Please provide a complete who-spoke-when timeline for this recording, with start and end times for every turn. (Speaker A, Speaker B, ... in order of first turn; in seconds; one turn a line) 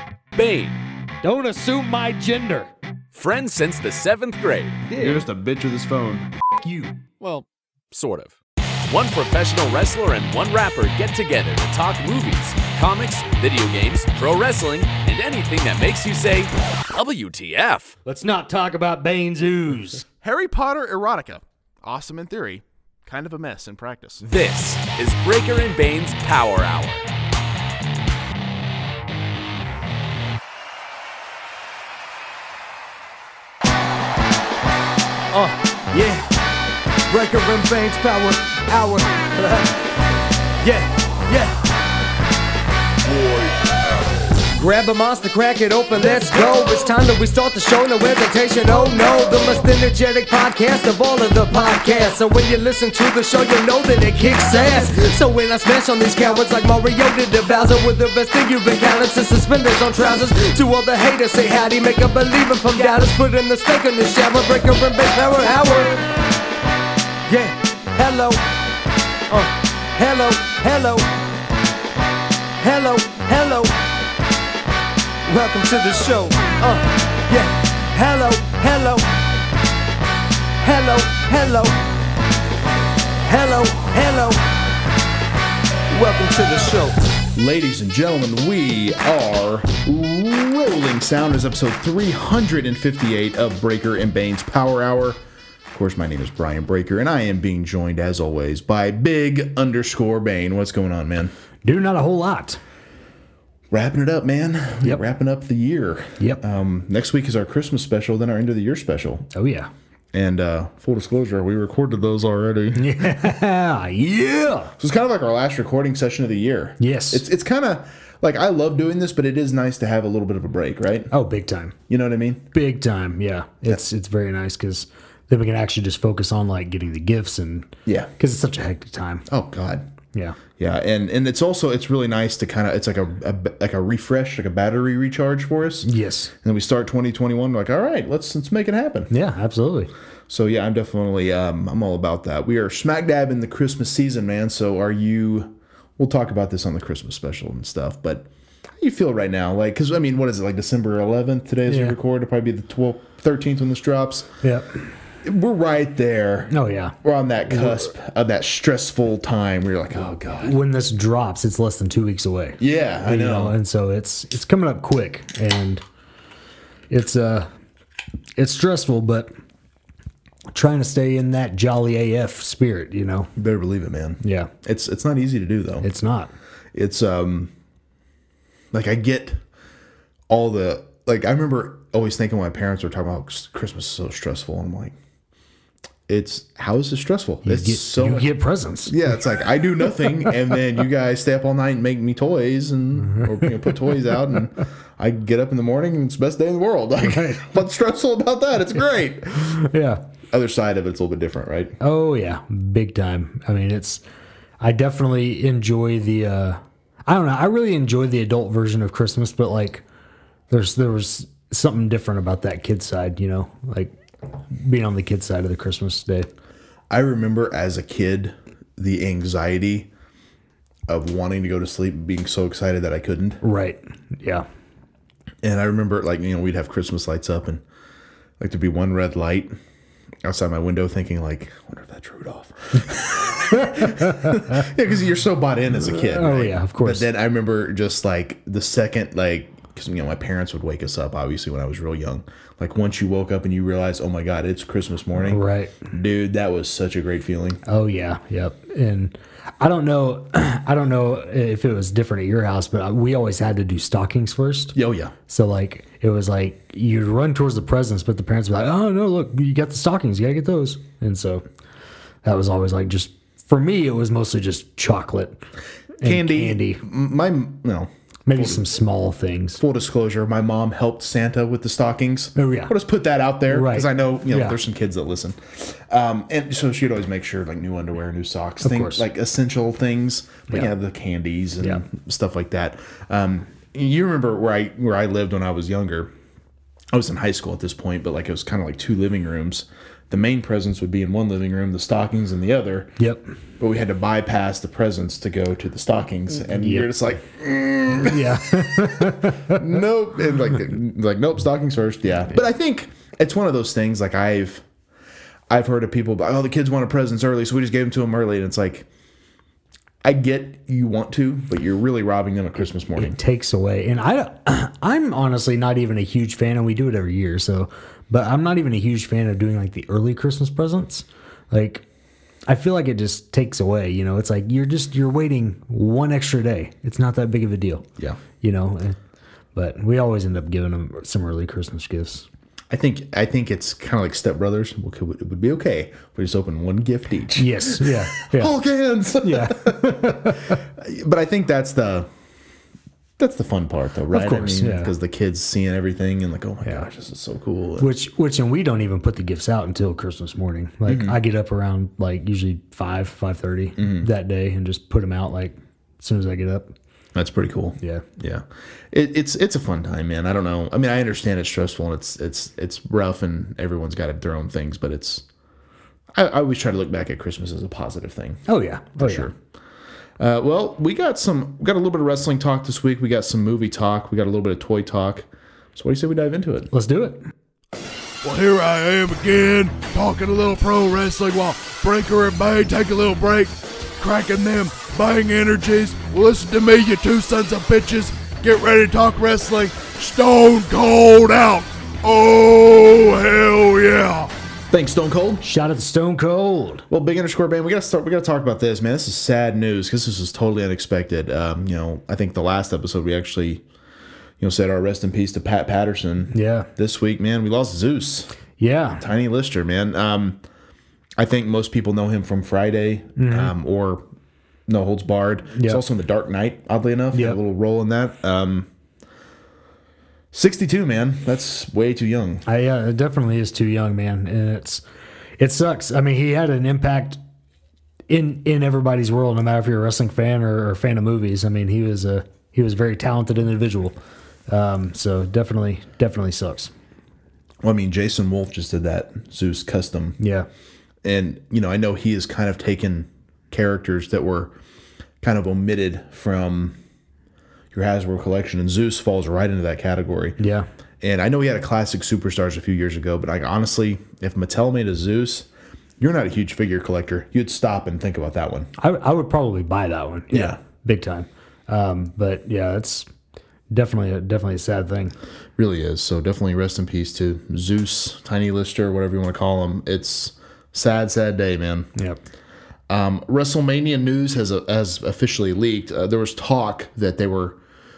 Speaker A: 0.3-0.8
Speaker B: 1.2-2.7
Speaker A: 3.1-4.9
Speaker C: 4.9-6.3
Speaker B: 6.6-6.9
Speaker A: 7.2-8.4
Speaker A: 8.9-18.0
Speaker B: 18.1-20.1
Speaker C: 20.2-24.2
Speaker A: 24.2-27.0
Speaker D: 35.3-36.4
Speaker D: 37.1-39.8
Speaker D: 40.6-41.6
Speaker D: 44.5-66.0
Speaker D: 67.3-68.5
Speaker D: 69.3-71.2
Speaker D: 72.6-73.9
Speaker D: 75.3-79.2
Speaker D: 80.6-81.8
Speaker D: 83.2-84.6
Speaker D: 85.9-87.0
Speaker C: 87.3-101.3
Speaker B: 101.7-102.6
Speaker C: 103.7-109.3
Speaker B: 109.3-109.7
Speaker C: 110.1-113.4
Speaker B: 112.8-114.7
Speaker C: 114.8-121.1
Speaker B: 116.8-117.2
Speaker B: 121.1-121.8
Speaker C: 121.9-122.4
Speaker B: 122.5-129.3
Speaker C: 127.9-128.1
Speaker C: 129.3-129.9
Speaker B: 130.1-130.4
Speaker C: 130.6-135.9
Speaker B: 135.8-136.3
Speaker C: 136.4-139.1
Speaker B: 139.1-139.9
Speaker C: 140.3-148.3
Speaker C: 148.8-154.3
Speaker B: 151.7-152.0
Speaker B: 154.4-154.7
Speaker C: 155.2-160.6
Speaker B: 156.5-156.9
Speaker B: 157.5-157.8
Speaker B: 160.4-165.8
Speaker C: 162.6-163.6
Speaker B: 166.9-167.5
Speaker B: 168.4-169.3
Speaker B: 170.5-173.3
Speaker C: 173.4-175.9
Speaker B: 174.2-174.5
Speaker B: 175.8-176.3
Speaker C: 176.7-177.5
Speaker C: 178.7-179.4
Speaker C: 180.3-184.9
Speaker C: 186.1-188.3
Speaker B: 187.4-188.9
Speaker C: 188.9-199.6
Speaker B: 190.0-190.3
Speaker B: 193.1-193.8
Speaker B: 197.0-197.4
Speaker B: 199.4-200.0
Speaker C: 200.3-201.8
Speaker B: 201.8-204.0
Speaker B: 204.6-209.8
Speaker B: 210.5-213.9
Speaker B: 214.5-216.3
Speaker C: 216.9-219.9
Speaker C: 220.9-223.4
Speaker B: 223.4-224.5
Speaker C: 225.4-227.6
Speaker C: 228.4-229.5
Speaker C: 230.2-247.6
Speaker B: 233.4-234.6
Speaker B: 235.9-237.1
Speaker B: 245.2-245.8
Speaker B: 247.7-254.8
Speaker C: 254.8-255.1
Speaker B: 255.3-261.4
Speaker B: 262.2-265.4
Speaker B: 266.0-266.8
Speaker C: 266.0-268.6
Speaker B: 268.3-269.6
Speaker C: 269.6-286.1
Speaker B: 272.4-272.7
Speaker B: 273.5-274.6
Speaker B: 278.6-279.0
Speaker C: 286.9-292.9
Speaker B: 293.0-293.3
Speaker C: 293.6-304.6
Speaker B: 296.6-296.9
Speaker B: 297.9-299.7
Speaker C: 305.5-308.9
Speaker C: 310.0-313.1
Speaker B: 313.0-321.8
Speaker B: 322.5-327.9
Speaker B: 328.4-329.0
Speaker B: 329.6-332.3
Speaker C: 332.7-342.1
Speaker B: 337.4-338.5
Speaker B: 339.2-340.6
Speaker C: 343.2-347.9
Speaker B: 344.1-344.9
Speaker B: 347.8-356.7
Speaker C: 350.9-351.2
Speaker C: 353.8-354.1
Speaker C: 357.1-365.2
Speaker B: 357.8-358.1
Speaker C: 366.1-369.4
Speaker B: 368.5-369.3
Speaker C: 370.2-376.7
Speaker B: 376.7-377.3
Speaker E: 378.2-394.3
Speaker C: 394.7-395.4
Speaker B: 395.4-396.9
Speaker C: 396.9-403.6
Speaker C: 404.4-408.3
Speaker B: 406.3-406.7
Speaker B: 408.6-409.0
Speaker C: 409.0-410.4
Speaker C: 411.2-414.0
Speaker B: 413.2-413.5
Speaker C: 414.7-418.7
Speaker B: 415.6-415.8
Speaker B: 417.1-417.4
Speaker C: 420.3-422.4
Speaker B: 422.5-424.8
Speaker B: 425.4-427.2
Speaker B: 428.1-434.0
Speaker B: 434.5-436.7
Speaker C: 437.6-440.2
Speaker B: 440.2-440.5
Speaker C: 441.0-444.5
Speaker C: 445.2-446.8
Speaker C: 447.7-450.4
Speaker B: 450.4-450.7
Speaker C: 451.0-455.5
Speaker C: 456.0-458.7
Speaker B: 458.8-463.1
Speaker C: 460.3-460.6
Speaker B: 463.7-465.1
Speaker C: 465.6-471.9
Speaker C: 472.9-477.6